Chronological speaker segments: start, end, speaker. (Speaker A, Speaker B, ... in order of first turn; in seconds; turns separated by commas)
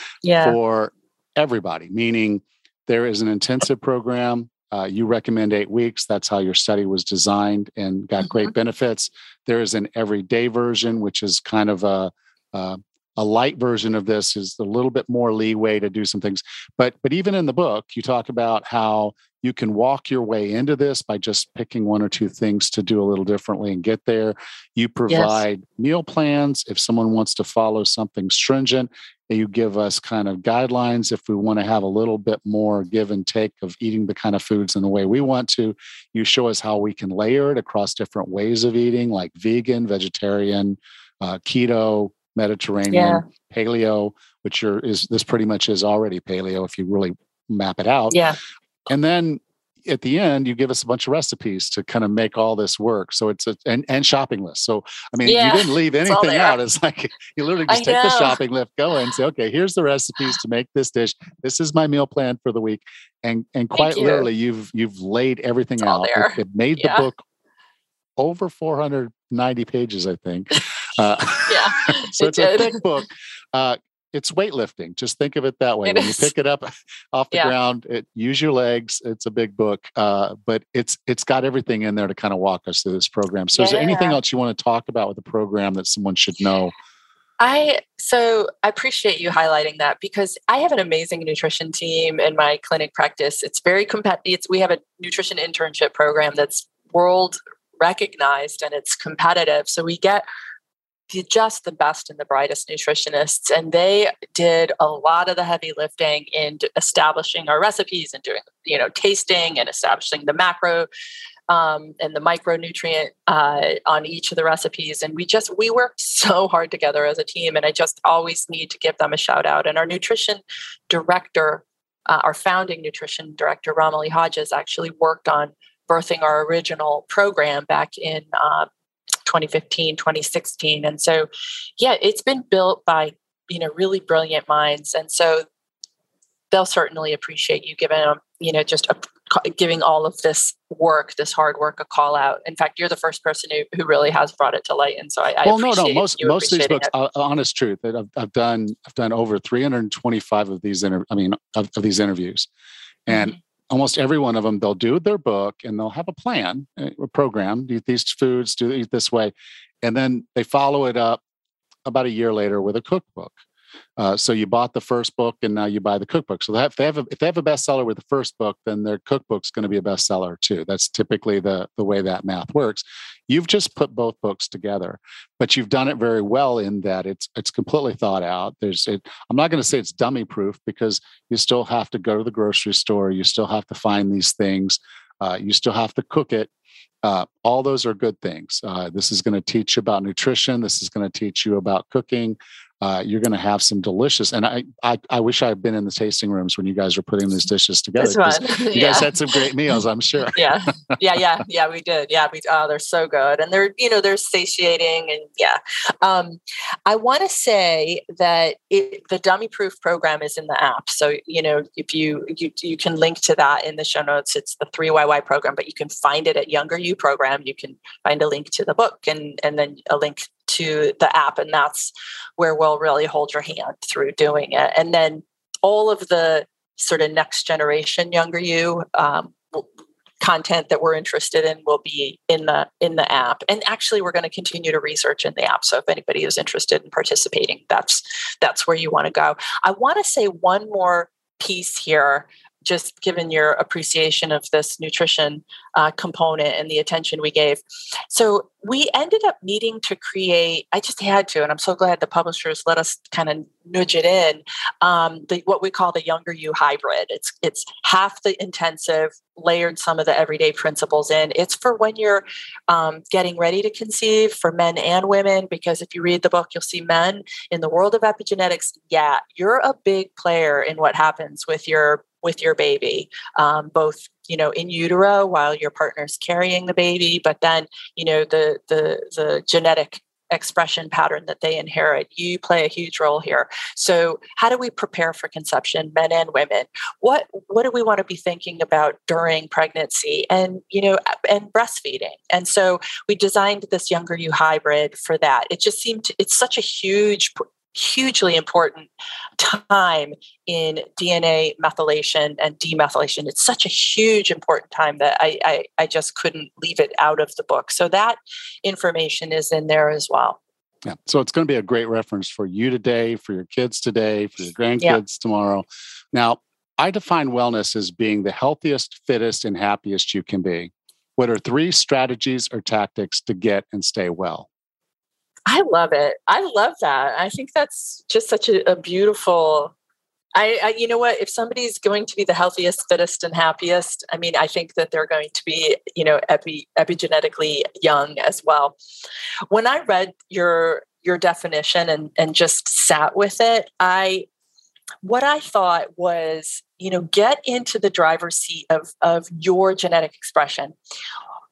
Speaker A: 0.2-0.6, Speaker B: 0.4-48.2, Speaker A: 25.1-25.4, Speaker A: 42.9-43.2, Speaker A: 48.1-48.4, Speaker B: 48.9-67.2, Speaker A: 55.2-56.6, Speaker A: 57.7-58.4, Speaker A: 63.8-64.3, Speaker A: 65.8-67.1, Speaker B: 68.2-86.7, Speaker A: 71.5-72.8, Speaker A: 75.8-76.3, Speaker A: 83.5-84.2, Speaker A: 87.4-100.3, Speaker A: 101.1-110.9, Speaker A: 111.5-128.7, Speaker A: 129.2-135.4, Speaker A: 136.5-146.9, Speaker B: 145.4-152.5, Speaker B: 153.1-161.2, Speaker A: 153.1-153.3, Speaker B: 161.9-163.4, Speaker B: 164.0-186.5, Speaker B: 187.0-201.0, Speaker A: 198.0-199.5, Speaker A: 200.3-229.7, Speaker A: 230.2-310.4, Speaker B: 310.9-324.5, Speaker A: 325.5-329.7, Speaker A: 330.4-338.8, Speaker A: 339.5-344.3, Speaker A: 345.0-350.8